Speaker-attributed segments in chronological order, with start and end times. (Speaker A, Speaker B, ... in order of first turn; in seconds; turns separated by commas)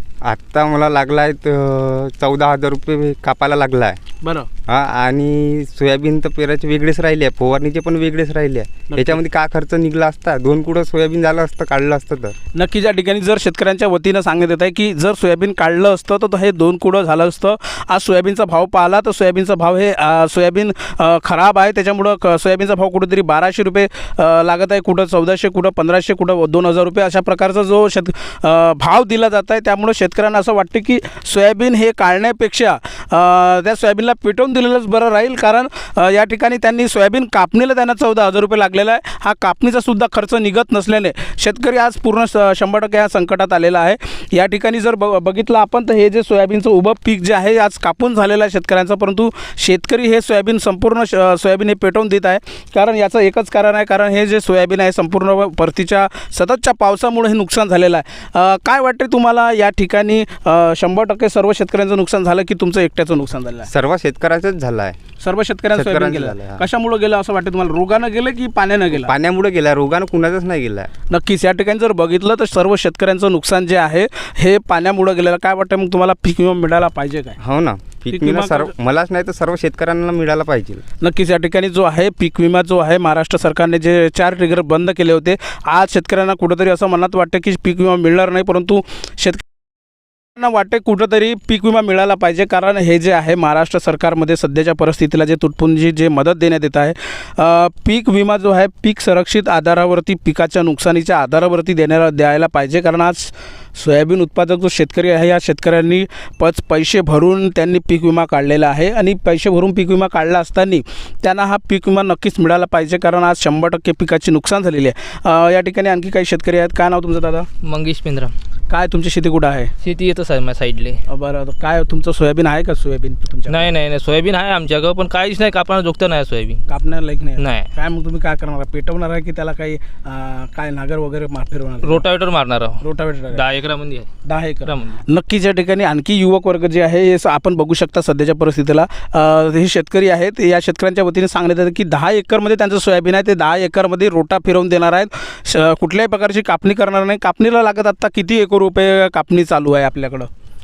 Speaker A: 0.2-4.0, Speaker B: 4.2-4.5, Speaker A: 4.7-12.3, Speaker B: 8.9-9.2, Speaker B: 12.5-63.7, Speaker A: 63.6-65.0, Speaker B: 65.2-69.1, Speaker A: 65.7-66.6, Speaker A: 68.9-70.9, Speaker B: 71.1-77.4, Speaker A: 77.4-80.8, Speaker B: 78.1-78.7, Speaker B: 81.0-89.4, Speaker B: 90.3-117.5, Speaker C: 117.6-118.3, Speaker B: 118.7-119.7, Speaker C: 119.8-121.0, Speaker B: 121.1-123.7, Speaker C: 123.5-126.6, Speaker B: 126.7-132.0, Speaker C: 127.4-127.7, Speaker C: 131.8-134.1, Speaker B: 132.8-133.4, Speaker B: 134.2-150.3, Speaker C: 134.7-135.0